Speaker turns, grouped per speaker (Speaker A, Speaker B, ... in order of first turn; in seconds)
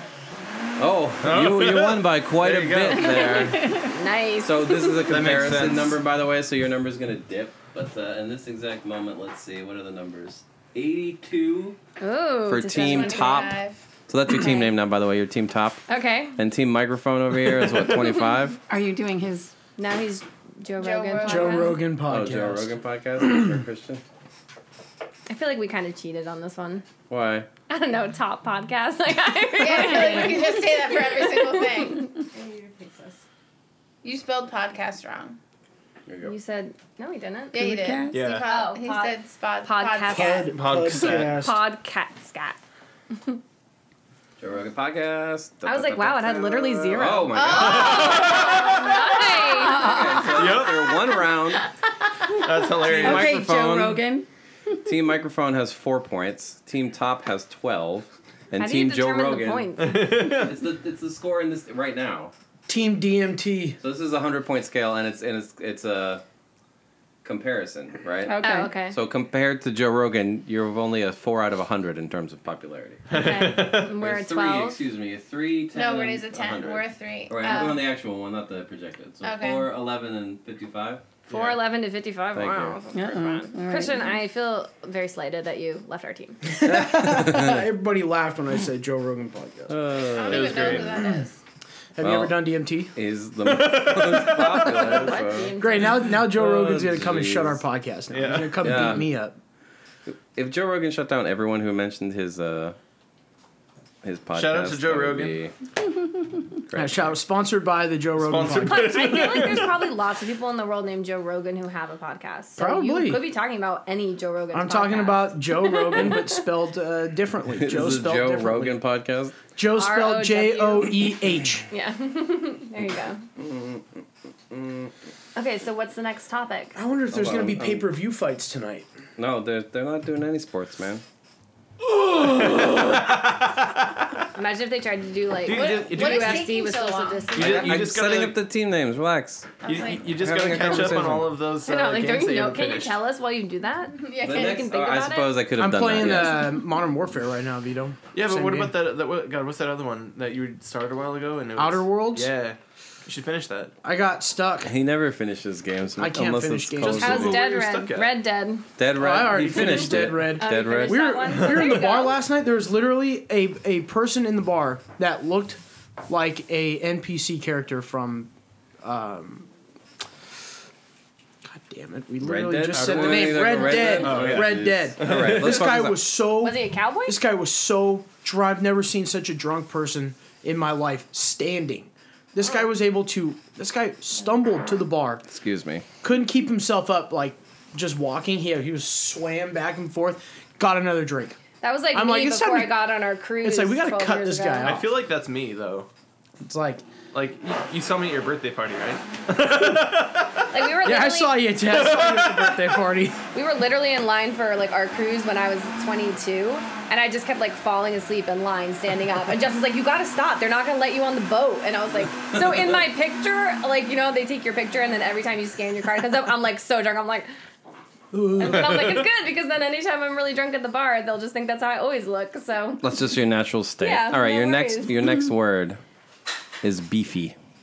Speaker A: 0.8-3.9, 4.4-11.8, 12.4-15.8, 16.4-18.6, 22.0-24.0, 27.1-27.5, 36.1-36.3, 44.4-48.3, 49.7-51.7, 52.9-54.0, 54.8-62.3, 63.8-66.2, 67.2-81.2, 82.3-82.8, 86.7-87.6, 89.7-91.0, 92.0-95.6, 96.1-97.6, 98.5-99.1, 100.0-102.8, 104.0-105.5, 106.7-107.2, 117.6-119.4, 123.4-124.9, 127.1-127.9, 129.2-131.0, 137.4-141.3, 144.2-146.6, 154.6-157.4, 158.8-161.2, 172.2-176.0, 185.3-185.8, 222.8-225.8, 226.6-227.3
Speaker B: 1.2-3.2, 5.0-6.0, 38.1-38.5, 40.4-41.5, 47.5-49.0, 50.3-50.9, 52.3-53.4, 59.8-60.6, 73.1-74.0, 81.3-81.6, 90.2-91.1, 93.4-94.7, 98.1-98.7, 104.3-105.4, 108.2-109.8, 131.8-134.0, 135.4-136.5, 137.3-138.4, 139.6-143.0, 148.1-153.7, 156.9-158.2, 161.3-161.9, 172.7-175.6, 194.6-195.9, 197.1-200.4, 201.6-202.8, 218.4-219.0
Speaker C: 3.0-5.0, 12.0-13.5, 14.3-14.7, 15.9-16.4, 19.8-21.8, 25.3-26.8, 27.7-33.2, 36.2-37.6, 38.2-42.6, 45.6-50.2, 58.5-60.1, 68.4-69.0, 73.1-74.8, 81.3-86.5, 94.6-96.1, 108.6-116.4, 119.7-123.2, 125.3-126.8, 134.3-137.9, 141.6-145.4, 156.8-158.7, 159.5-162.2, 176.4-177.2, 191.6-194.8, 200.5-201.5, 203.3-217.3, 218.3-222.9, 223.8-225.0
Speaker D: 12.7-13.8, 20.8-21.8, 29.6-32.2, 34.0-35.4, 37.5-40.5, 47.3-49.1, 75.7-78.0, 79.2-79.7, 90.1-91.4, 135.5-137.6, 139.6-140.1, 144.0-144.7
Speaker E: 18.7-19.5, 37.5-38.2, 49.5-50.3, 52.9-54.2, 68.2-68.7, 82.9-84.1
Speaker F: 21.2-22.7, 40.1-41.6, 62.7-63.8, 86.6-89.8, 91.0-91.2, 92.0-92.9, 95.6-99.4, 106.7-109.0, 112.6-113.3, 114.5-118.8, 119.5-121.7, 126.7-128.9, 145.6-148.7, 151.6-152.3, 153.8-154.7, 156.0-157.4, 158.9-168.3, 168.8-169.5, 171.4-185.2, 186.0-191.4, 191.9-192.8, 193.4-194.9, 196.4-196.8, 200.8-203.2, 218.1-218.8